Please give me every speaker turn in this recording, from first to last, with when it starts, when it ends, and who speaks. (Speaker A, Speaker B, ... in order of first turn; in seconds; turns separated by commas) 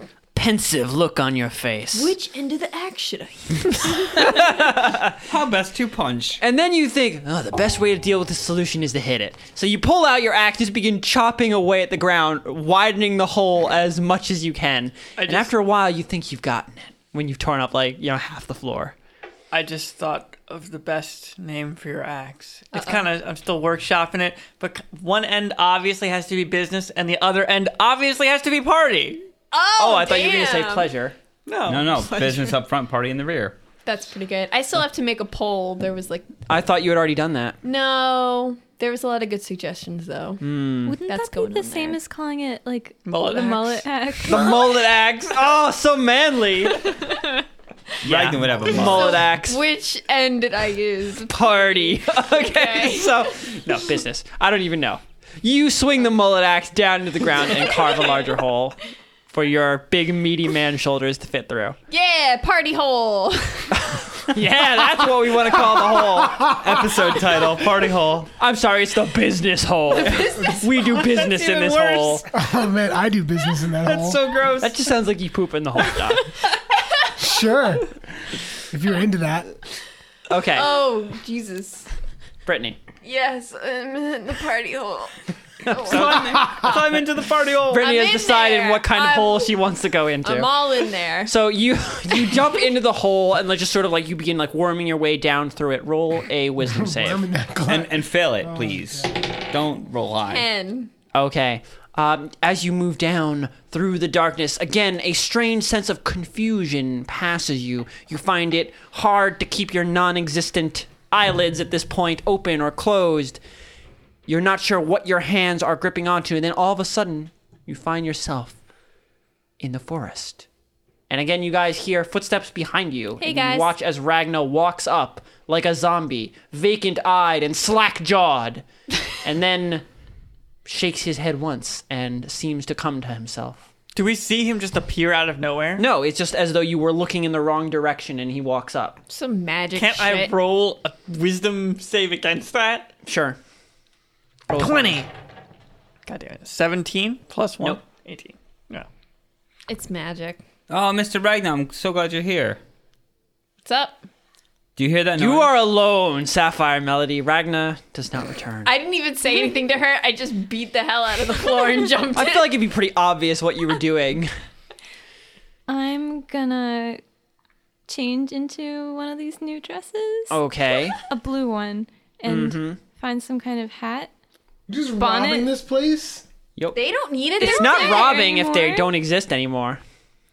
Speaker A: 0.3-2.1, Speaker B: 1.9-4.4, Speaker A: 4.2-5.2, Speaker C: 5.2-6.4, Speaker A: 6.4-18.9, Speaker D: 15.2-15.5, Speaker D: 19.5-29.2, Speaker B: 22.7-23.1, Speaker B: 29.5-30.9, Speaker A: 29.8-31.2, Speaker D: 31.5-32.0, Speaker C: 31.7-33.6, Speaker B: 32.1-32.5, Speaker B: 33.9-36.3, Speaker A: 36.5-37.6, Speaker B: 37.6-40.4, Speaker A: 40.4-41.0, Speaker E: 40.9-44.6, Speaker B: 41.0-42.0, Speaker D: 43.0-43.9, Speaker A: 44.3-47.0, Speaker B: 46.9-47.4, Speaker C: 48.0-49.3, Speaker A: 48.0-49.6, Speaker B: 48.7-53.6, Speaker A: 51.3-58.8, Speaker A: 59.3-61.8, Speaker B: 61.9-64.1, Speaker A: 63.8-66.5, Speaker F: 66.2-66.5, Speaker C: 66.5-68.3, Speaker A: 68.4-72.2, Speaker B: 70.0-71.1, Speaker C: 71.1-72.2, Speaker F: 72.3-74.2, Speaker C: 73.8-74.8, Speaker A: 74.6-76.3, Speaker B: 76.5-77.2, Speaker F: 77.2-77.9, Speaker F: 78.6-79.5, Speaker A: 80.3-80.8, Speaker B: 80.5-81.9, Speaker A: 82.5-82.8, Speaker B: 83.0-86.6, Speaker A: 85.7-86.2, Speaker C: 85.8-87.8, Speaker A: 87.7-90.5, Speaker B: 87.8-89.7, Speaker B: 90.2-91.3, Speaker A: 91.2-97.2, Speaker F: 96.6-99.1, Speaker C: 97.7-100.5, Speaker B: 100.2-100.9, Speaker A: 101.1-113.4, Speaker A: 114.3-118.6, Speaker A: 119.6-120.5, Speaker A: 121.1-128.7, Speaker B: 123.2-123.7, Speaker A: 129.2-129.8, Speaker A: 130.7-133.7, Speaker D: 133.9-135.8, Speaker A: 135.8-139.0, Speaker B: 139.1-140.3, Speaker D: 139.8-142.9, Speaker A: 143.1-143.4, Speaker A: 144.5-145.1, Speaker D: 144.5-145.1, Speaker D: 146.1-148.9, Speaker B: 149.7-150.4, Speaker C: 150.7-152.6, Speaker B: 153.7-154.0, Speaker C: 154.8-155.5, Speaker A: 155.2-158.7, Speaker B: 158.7-162.6, Speaker A: 162.1-164.3, Speaker E: 165.7-167.0, Speaker E: 167.9-170.4, Speaker A: 170.3-171.0, Speaker E: 171.0-174.1, Speaker A: 172.2-172.8, Speaker F: 174.7-176.2, Speaker E: 175.0-175.5, Speaker B: 176.7-178.2, Speaker E: 177.4-178.9, Speaker A: 177.4-179.8